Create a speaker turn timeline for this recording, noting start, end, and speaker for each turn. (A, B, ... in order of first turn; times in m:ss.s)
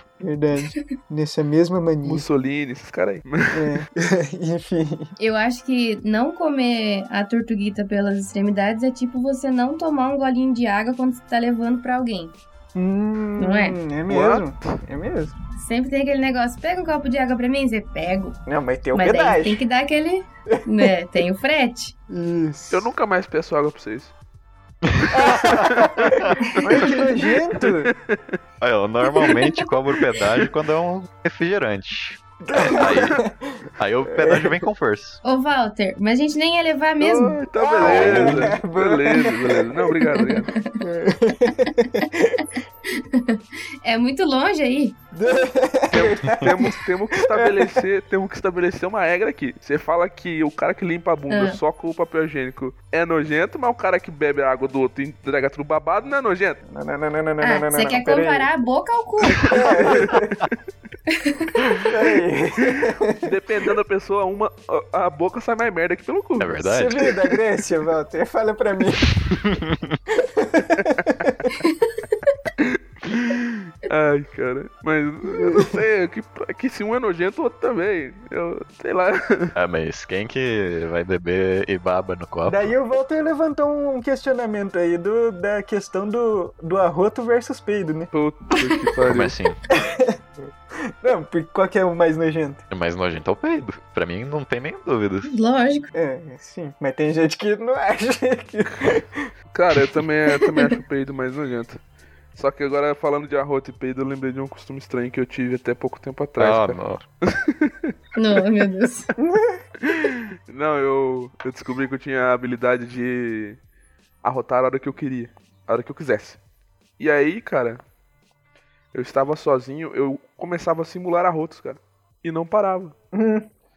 0:00.2-0:02.2 A
0:02.0-0:03.8 B
0:03.5-0:05.1 A
0:05.2-0:12.3 C
0:12.7-0:15.3 A
0:13.4-0:13.8 C
0:14.1-0:14.8 B
0:15.6-0:18.4 C
0:18.4-0:19.6 A
0:18.9-0:21.9 C
0:20.5-0:20.9 A
0:22.1-0:22.9 A
0:22.7-0:24.1 B
0:24.8-0:26.9 D
0:25.1-0:27.9 A
0:25.2-0:27.1 B
0:27.6-0:28.4 B
0:28.6-0:33.2 D
0:32.4-0:34.6 A
0:32.8-0:33.1 B
0:33.8-0:35.2 D
0:35.2-0:37.4 C
0:37.0-0:40.5 B
0:37.6-0:40.0 A
0:37.8-0:38.6 D
0:40.1-0:40.8 C
0:40.8-0:42.5 A
0:41.6-0:42.1 C
0:42.9-0:45.0 C
0:45.1-0:47.8 A
0:45.9-0:56.6 B
0:51.3-0:51.6 C
0:56.7-0:58.5 A
0:57.4-0:59.9 C
0:59.3-1:00.3 B
0:59.4-1:00.4 A
1:01.1-1:01.7 C
1:01.8-1:03.2 A
1:02.7-1:07.2 B
1:06.4-1:07.1 D
1:06.6-1:09.1 A
1:09.2-1:10.0 D
1:10.2-1:11.5 A
1:10.8-1:11.2 B
1:11.6-1:12.3 C
1:12.6-1:19.5 B
1:15.3-1:15.8 A
1:19.6-1:22.7 D
1:22.5-1:28.1 A
1:28.1-1:29.4 B
1:29.1-1:29.6 D
1:29.7-1:30.2 A
1:30.8-1:32.6 A
1:32.7-1:35.3 D
1:35.2-1:35.9 C
1:35.9-1:39.3 A
1:39.5-1:41.8 B
1:42.3-1:47.9 B
1:46.4-1:47.0 D
1:48.2-1:49.1 C
1:49.2-1:49.6 A
1:49.8-1:53.6 B
1:54.2-1:56.4 B
1:57.0-1:57.8 B
1:58.9-2:02.9 B
2:03.1-2:03.5 A